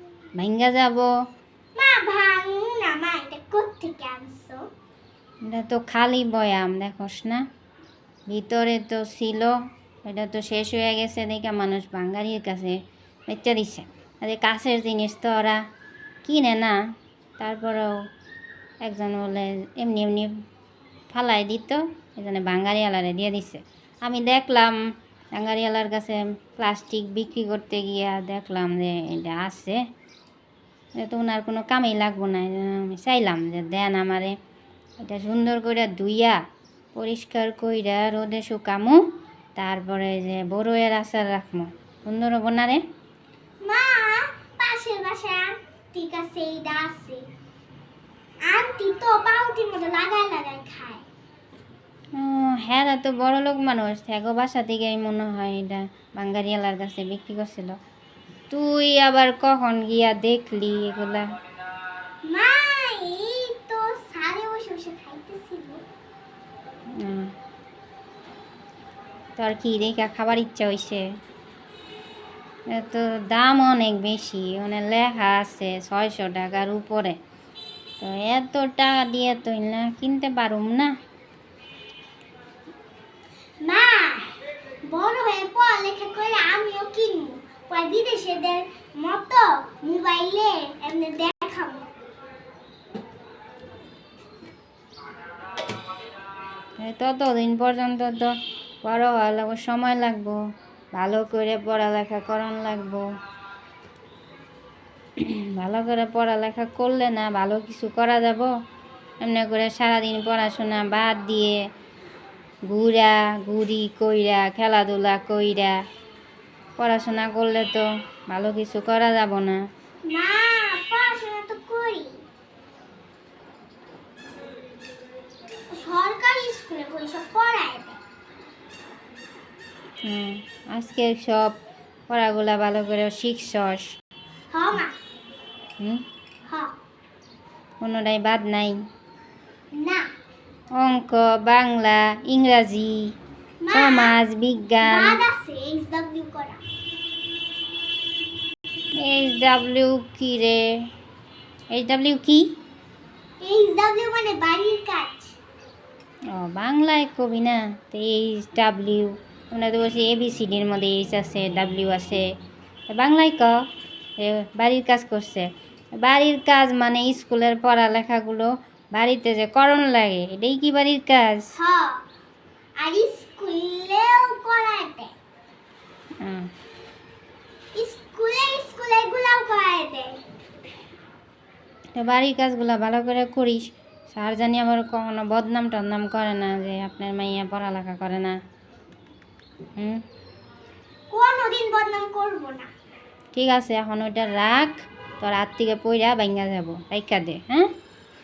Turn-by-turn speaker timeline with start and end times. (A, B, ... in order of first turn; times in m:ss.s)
0:00.3-0:01.1 A
0:01.7-0:04.7 B
0:05.4-0:07.4 A
0:08.3-0:09.5 A
0:10.0-0:15.6 A
0:16.2-0:16.8 A
0:17.4-0:17.9 A
0:18.8-0:20.3 A
0:21.1-0:24.8 A
0:25.3-0:29.8 A
0:31.0-0:34.3 A
0:35.0-0:36.4 A
0:37.0-0:39.0 A
0:39.6-0:42.8 A
0:43.6-0:47.2 B
0:48.4-0:51.0 B
0:52.2-0:57.8 A
0:58.5-1:01.2 A
1:02.3-1:05.8 B
1:07.0-1:07.3 A
1:09.4-1:11.0 A
1:12.7-1:17.2 A
1:18.0-1:20.9 A
1:23.6-1:24.3 B
1:24.9-1:31.9 B
1:36.8-1:38.3 A
1:38.8-1:40.4 A
1:40.9-1:43.0 A
1:45.2-1:48.5 A
1:49.2-1:51.6 A
1:52.7-1:55.7 A
1:56.8-1:59.6 A
2:00.1-2:02.2 B
2:05.7-2:08.0 B
2:10.0-2:11.5 A
2:12.1-2:13.9 A
2:14.5-2:14.9 B
2:16.5-2:16.7 B
2:17.8-2:18.8 A
2:19.7-2:20.1 B
2:20.8-2:23.1 A
2:23.6-2:24.2 B
2:23.7-2:25.2 A
2:24.8-2:26.6 B
2:29.0-2:30.6 A
2:31.7-2:32.4 A
2:33.4-2:35.3 B
2:36.3-2:42.2 A
2:42.9-2:43.5 A
2:44.2-2:45.5 A
2:46.0-2:51.5 A
2:51.5-2:52.0 B
2:52.8-2:55.1 B
2:57.8-3:00.2 B
3:02.0-3:08.4 A
3:11.1-3:12.7 B
3:13.3-3:17.7 A